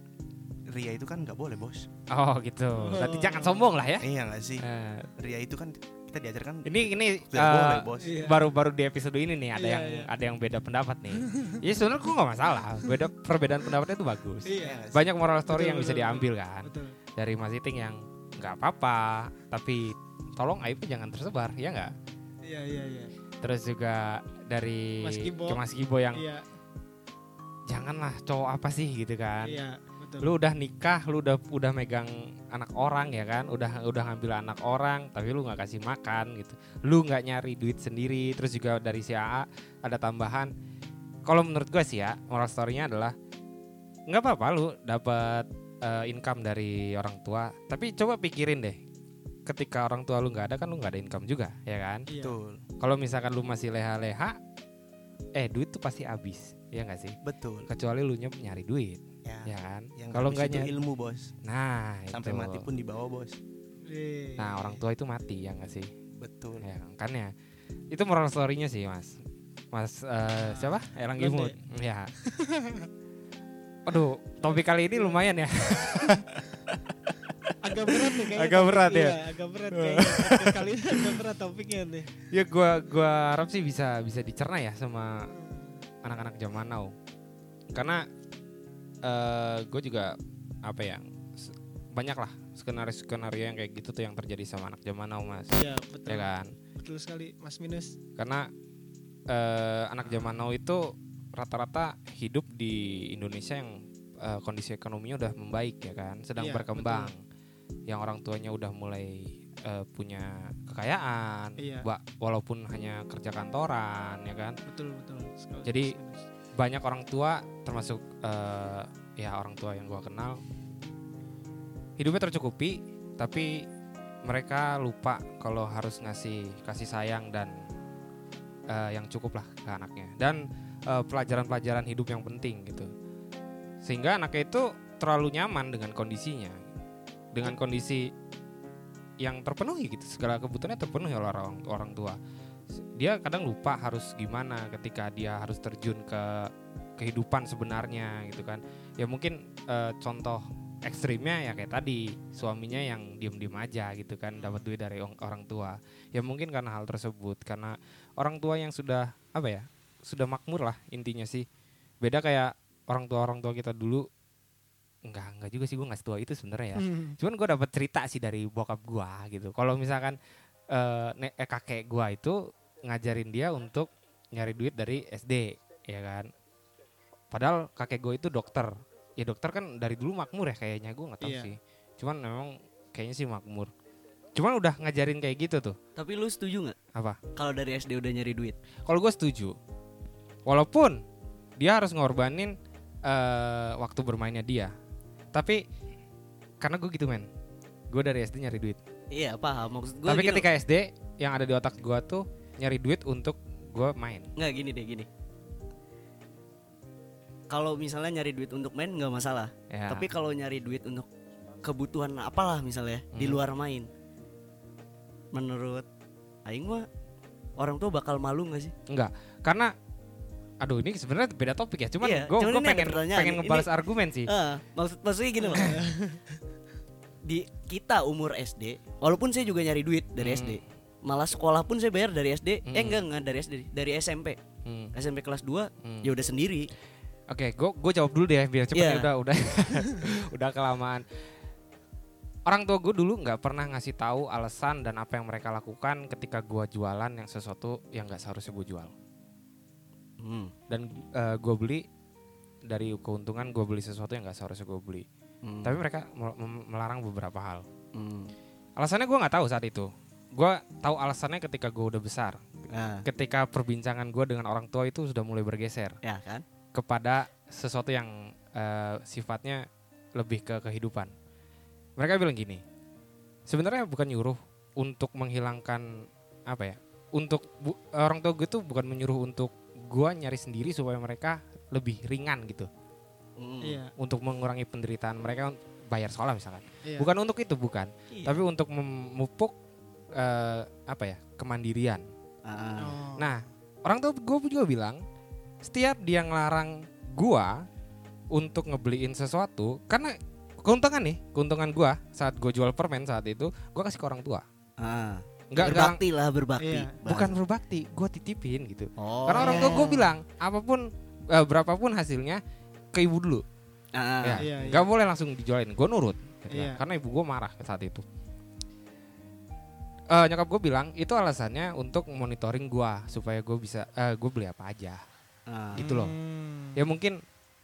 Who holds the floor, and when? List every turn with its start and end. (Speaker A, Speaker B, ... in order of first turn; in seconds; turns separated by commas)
Speaker A: 0.7-1.9, Speaker B: 2.1-4.1, Speaker C: 2.8-3.7, Speaker A: 4.0-8.2, Speaker B: 4.6-5.1, Speaker B: 6.7-21.9, Speaker C: 8.0-8.5, Speaker C: 9.6-10.1, Speaker C: 11.3-11.6, Speaker C: 14.4-14.8, Speaker A: 14.6-15.1, Speaker C: 15.5-16.9, Speaker C: 22.4-23.1, Speaker B: 23.4-26.2, Speaker C: 25.0-25.6, Speaker C: 26.1-26.4, Speaker B: 27.7-29.6, Speaker C: 29.4-30.3, Speaker B: 30.2-40.5, Speaker B: 41.2-43.1, Speaker B: 44.1-48.8, Speaker B: 49.5-52.0, Speaker C: 52.1-52.4, Speaker A: 52.2-52.6, Speaker B: 52.8-54.4, Speaker B: 55.3-57.1, Speaker A: 57.2-57.7, Speaker B: 57.7-60.7, Speaker A: 59.2-61.3, Speaker B: 61.4-62.7, Speaker A: 62.1-63.4, Speaker C: 63.9-64.8, Speaker B: 64.4-65.9, Speaker A: 66.2-66.6, Speaker B: 66.6-67.3, Speaker B: 67.9-69.2, Speaker B: 69.7-72.1, Speaker C: 70.4-71.5, Speaker C: 72.2-72.9, Speaker B: 73.9-76.3, Speaker C: 77.6-82.1, Speaker B: 77.7-79.2, Speaker B: 79.7-81.2, Speaker B: 82.3-85.3, Speaker C: 85.3-85.8, Speaker B: 86.0-86.9, Speaker B: 87.7-88.0, Speaker B: 89.0-95.5, Speaker C: 95.5-98.0, Speaker B: 96.1-96.5, Speaker B: 98.2-98.5, Speaker B: 99.3-107.2, Speaker C: 100.1-100.4, Speaker C: 106.4-107.1, Speaker B: 107.9-114.6, Speaker C: 111.6-111.8, Speaker C: 114.7-116.2, Speaker B: 115.6-115.9, Speaker B: 116.6-120.4, Speaker B: 122.0-123.7, Speaker B: 124.2-127.5, Speaker B: 128.7-132.9, Speaker B: 133.8-136.6, Speaker B: 137.3-138.1, Speaker B: 139.2-142.2, Speaker B: 142.9-161.4, Speaker C: 154.4-154.7, Speaker B: 162.0-164.1, Speaker B: 165.1-170.2, Speaker C: 166.8-167.2, Speaker B: 170.7-176.3, Speaker B: 177.3-183.7, Speaker C: 181.2-181.5, Speaker B: 184.3-185.8, Speaker D: 185.9-186.8, Speaker D: 187.3-188.6, Speaker B: 188.8-189.6, Speaker B: 190.5-191.0, Speaker B: 191.6-192.5, Speaker B: 193.1-194.7, Speaker B: 195.3-195.6, Speaker B: 196.6-197.3, Speaker B: 197.9-198.8, Speaker D: 199.1-200.4, Speaker B: 200.1-204.3, Speaker D: 204.4-205.1, Speaker D: 207.5-211.1, Speaker B: 209.7-210.1, Speaker D: 211.6-213.9, Speaker B: 213.1-213.4, Speaker D: 215.3-215.9, Speaker D: 216.4-216.8, Speaker D: 217.6-218.7, Speaker B: 218.9-219.7, Speaker B: 220.6-224.3, Speaker D: 222.0-223.7, Speaker D: 224.3-225.8, Speaker C: 225.4-226.2, Speaker B: 225.6-225.8, Speaker D: 227.2-234.4, Speaker B: 230.2-230.6, Speaker B: 232.7-233.0, Speaker B: 234.6-234.9, Speaker D: 234.9-236.7, Speaker B: 235.8-236.1, Speaker B: 237.3-241.0, Speaker D: 238.7-239.1, Speaker B: 242.5-248.9, Speaker D: 250.2-250.5, Speaker B: 250.7-251.8, Speaker B: 252.7-255.1, Speaker D: 255.4-255.8, Speaker B: 255.6-257.6, Speaker D: 257.9-258.3, Speaker B: 258.8-262.4, Speaker D: 262.7-263.1, Speaker B: 263.0-266.0, Speaker D: 266.0-266.4, Speaker B: 266.7-271.1, Speaker B: 272.0-272.6, Speaker B: 273.5-282.7, Speaker D: 283.4-283.8, Speaker C: 283.6-283.9, Speaker B: 284.0-289.5, Speaker D: 288.1-288.4, Speaker B: 290.1-292.0, Speaker D: 292.4-293.0, Speaker C: 292.8-293.3, Speaker B: 293.2-295.0, Speaker B: 295.6-297.6, Speaker B: 298.3-304.4, Speaker D: 304.8-307.3, Speaker B: 305.5-306.0, Speaker C: 306.6-306.9, Speaker B: 307.1-312.4, Speaker D: 309.0-309.9, Speaker C: 309.4-310.1, Speaker B: 312.9-313.4, Speaker D: 313.9-314.5, Speaker B: 314.2-318.0, Speaker C: 314.4-314.9, Speaker C: 316.5-316.8, Speaker B: 320.1-325.0, Speaker D: 325.5-325.8, Speaker B: 325.7-326.1, Speaker C: 325.8-326.8, Speaker B: 326.8-327.2